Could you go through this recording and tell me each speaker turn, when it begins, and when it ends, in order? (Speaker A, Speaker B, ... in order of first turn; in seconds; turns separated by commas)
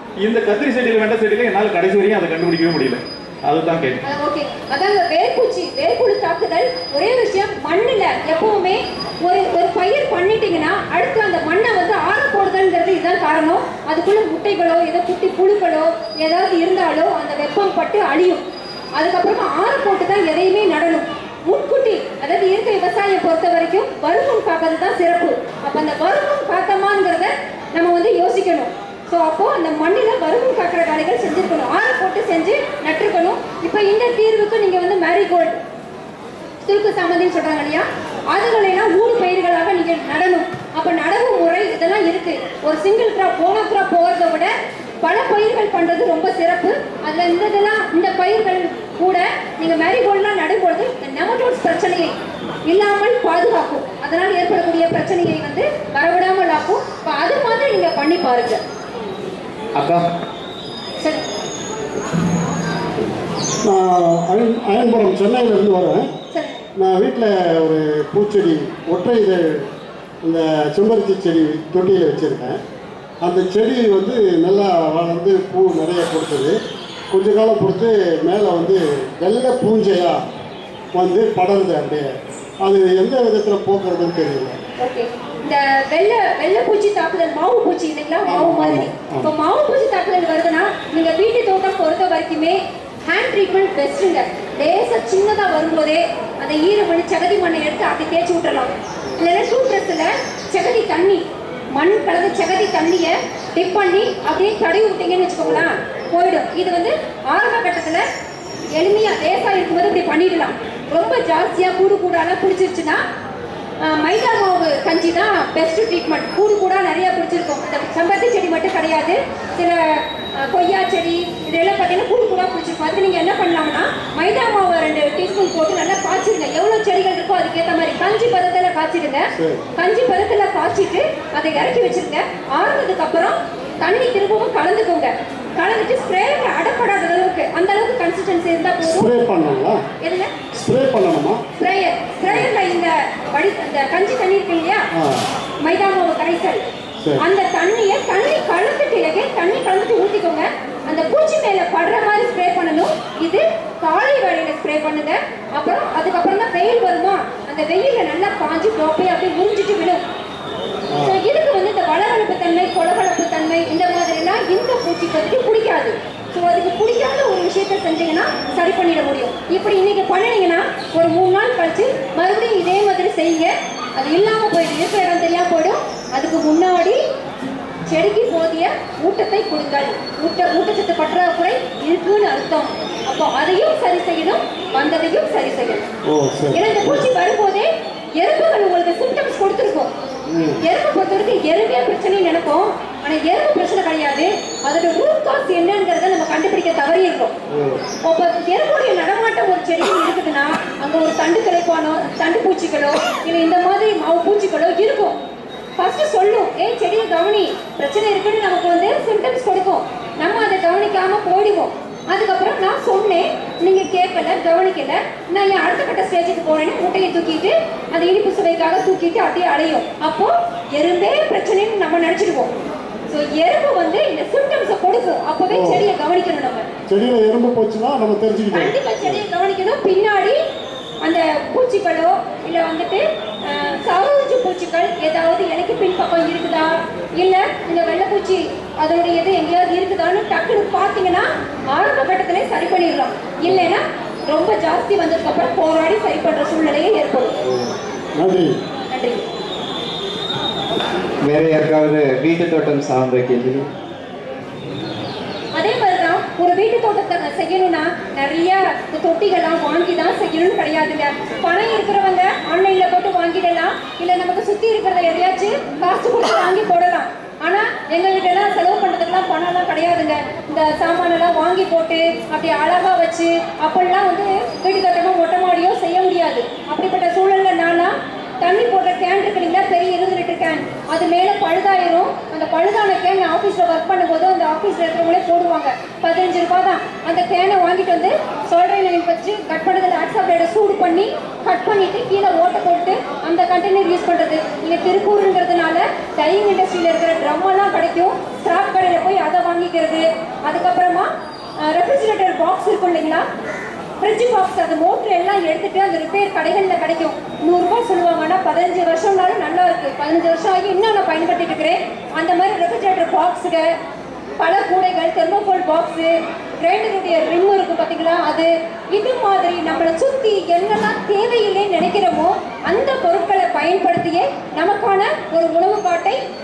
Speaker A: 0.2-4.0, Speaker B: 4.0-18.4, Speaker B: 19.0-35.6, Speaker B: 36.6-52.1, Speaker B: 52.7-58.6, Speaker A: 59.8-60.0, Speaker C: 63.6-66.1, Speaker B: 66.3-66.6, Speaker C: 66.8-69.6, Speaker C: 70.2-72.6, Speaker C: 73.2-76.6, Speaker C: 77.1-80.2, Speaker C: 80.9-84.6, Speaker B: 84.8-101.2, Speaker C: 88.2-89.3, Speaker B: 101.7-108.0, Speaker B: 108.7-113.0, Speaker B: 113.8-139.1, Speaker C: 129.3-129.6, Speaker C: 138.8-139.8, Speaker B: 140.0-140.3, Speaker C: 140.5-141.4, Speaker B: 141.6-144.9, Speaker C: 144.9-145.3, Speaker B: 145.6-146.6, Speaker C: 147.0-147.2, Speaker B: 147.2-160.0, Speaker C: 160.9-161.2, Speaker B: 161.0-177.0, Speaker B: 177.9-185.8, Speaker C: 186.1-187.1, Speaker B: 186.5-189.9, Speaker C: 190.3-190.6, Speaker B: 190.6-197.3, Speaker C: 197.5-197.8, Speaker B: 198.0-205.2, Speaker B: 205.8-222.5, Speaker B: 223.1-226.7, Speaker C: 225.5-225.8, Speaker C: 226.9-229.2, Speaker B: 228.5-230.4, Speaker B: 231.0-247.3, Speaker C: 247.4-248.5, Speaker B: 248.9-249.2, Speaker D: 251.2-253.7, Speaker B: 255.5-301.1, Speaker B: 301.6-303.2, Speaker B: 304.0-313.7, Speaker B: 314.4-326.2